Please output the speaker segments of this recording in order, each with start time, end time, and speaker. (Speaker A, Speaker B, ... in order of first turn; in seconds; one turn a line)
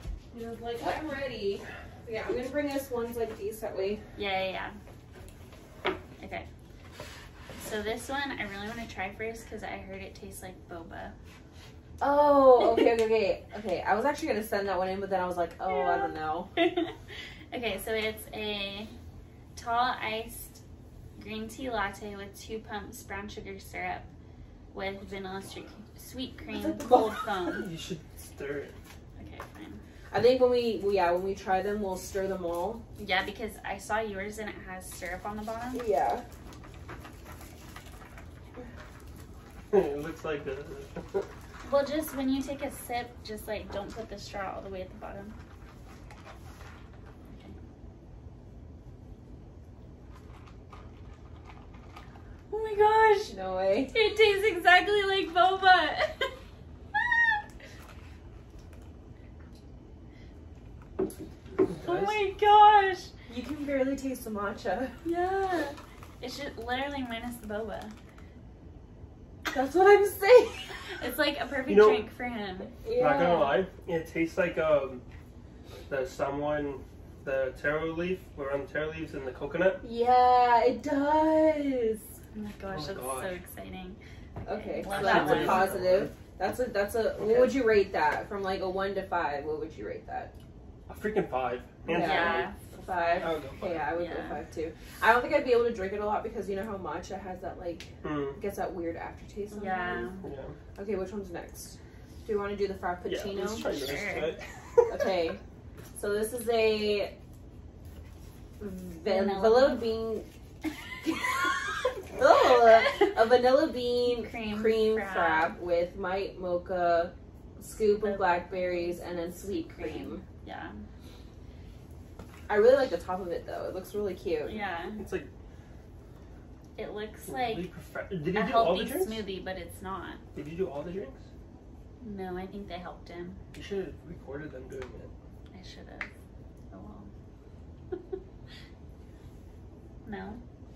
Speaker A: 0.3-4.0
Speaker B: 4.2-4.8
Speaker B: 6.2-6.5
Speaker B: 7.6-11.1
Speaker A: 12.0-16.5
Speaker B: 15.7-16.9
Speaker B: 17.5-18.9
Speaker B: 19.5-20.6
Speaker B: 21.1-24.1
Speaker B: 24.7-27.7
Speaker A: 26.5-27.2
Speaker C: 27.5-28.8
Speaker B: 29.1-29.8
Speaker A: 30.1-32.8
Speaker B: 33.0-35.8
Speaker A: 35.7-36.2
Speaker C: 39.7-41.2
Speaker B: 41.6-45.4
Speaker B: 47.3-47.5
Speaker B: 52.5-53.3
Speaker A: 53.3-53.9
Speaker B: 53.9-56.3
Speaker B: 57.0-57.4
Speaker C: 61.6-62.2
Speaker B: 61.8-63.1
Speaker A: 63.3-64.9
Speaker B: 65.0-67.9
Speaker A: 69.5-70.7
Speaker B: 70.9-72.7
Speaker C: 71.7-72.0
Speaker A: 72.8-73.6
Speaker C: 73.0-75.0
Speaker C: 75.9-79.8
Speaker A: 79.8-82.1
Speaker B: 82.3-84.0
Speaker C: 82.7-83.3
Speaker A: 84.4-90.3
Speaker B: 84.6-85.7
Speaker C: 84.8-86.2
Speaker C: 87.2-87.6
Speaker C: 90.9-92.5
Speaker A: 91.8-100.1
Speaker B: 91.9-93.3
Speaker C: 93.2-93.8
Speaker B: 93.9-94.4
Speaker C: 98.0-98.4
Speaker B: 99.5-100.2
Speaker C: 100.2-100.5
Speaker A: 100.7-103.7
Speaker C: 103.0-105.1
Speaker B: 103.5-104.4
Speaker A: 104.9-105.4
Speaker A: 106.0-107.1
Speaker A: 108.6-110.3
Speaker B: 109.0-109.9
Speaker A: 112.1-120.2
Speaker B: 114.1-115.5
Speaker B: 117.8-120.8
Speaker A: 122.5-124.6
Speaker B: 124.4-125.0
Speaker C: 125.0-125.3
Speaker B: 126.8-127.7
Speaker C: 127.3-129.2
Speaker B: 128.3-130.2
Speaker C: 130.3-131.2
Speaker B: 132.0-133.4
Speaker C: 133.5-135.1
Speaker B: 135.5-136.1
Speaker B: 136.7-137.1
Speaker B: 140.0-140.4